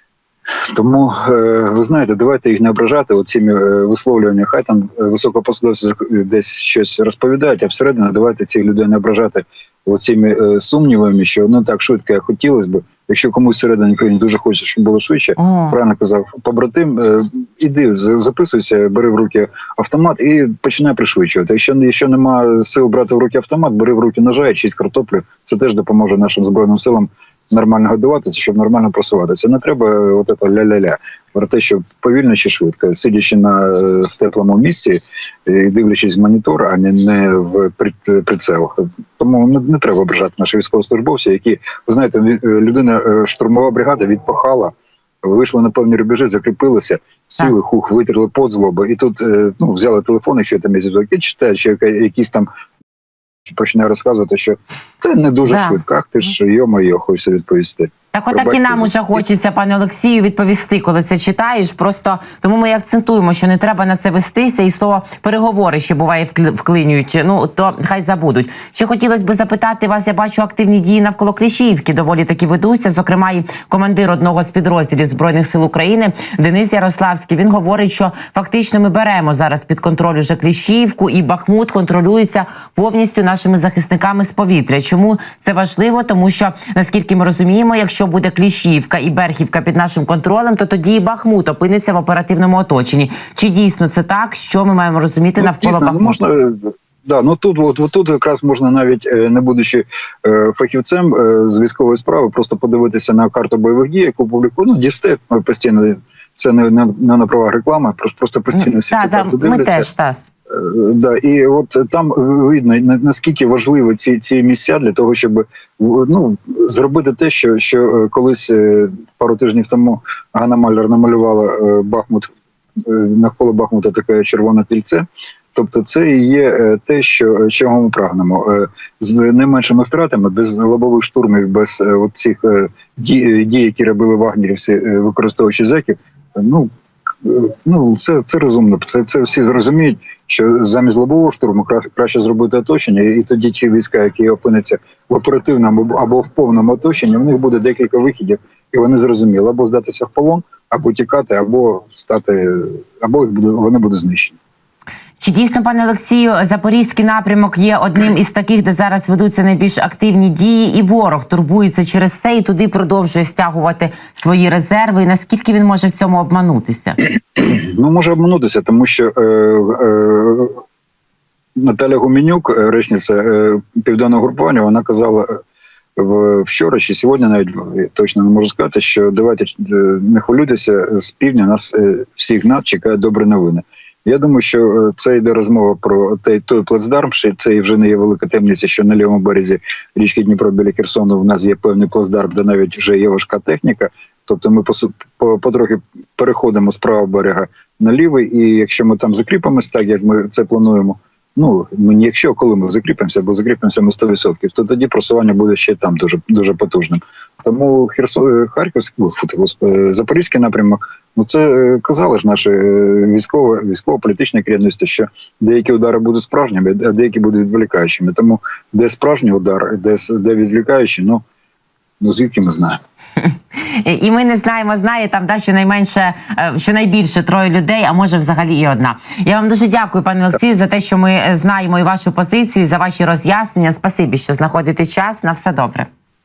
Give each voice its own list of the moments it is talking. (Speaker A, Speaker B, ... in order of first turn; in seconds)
Speaker A: 0.7-44.7, 45.2-52.5, 53.5-59.2, 95.4-109.9, 110.5-154.4, 167.4-170.6, 171.6-175.3, 176.0-221.2, 222.0-222.8
Speaker B: 15.4-15.8, 55.5-55.8, 58.1-96.2, 108.5-110.2, 155.2-167.0, 223.2-235.9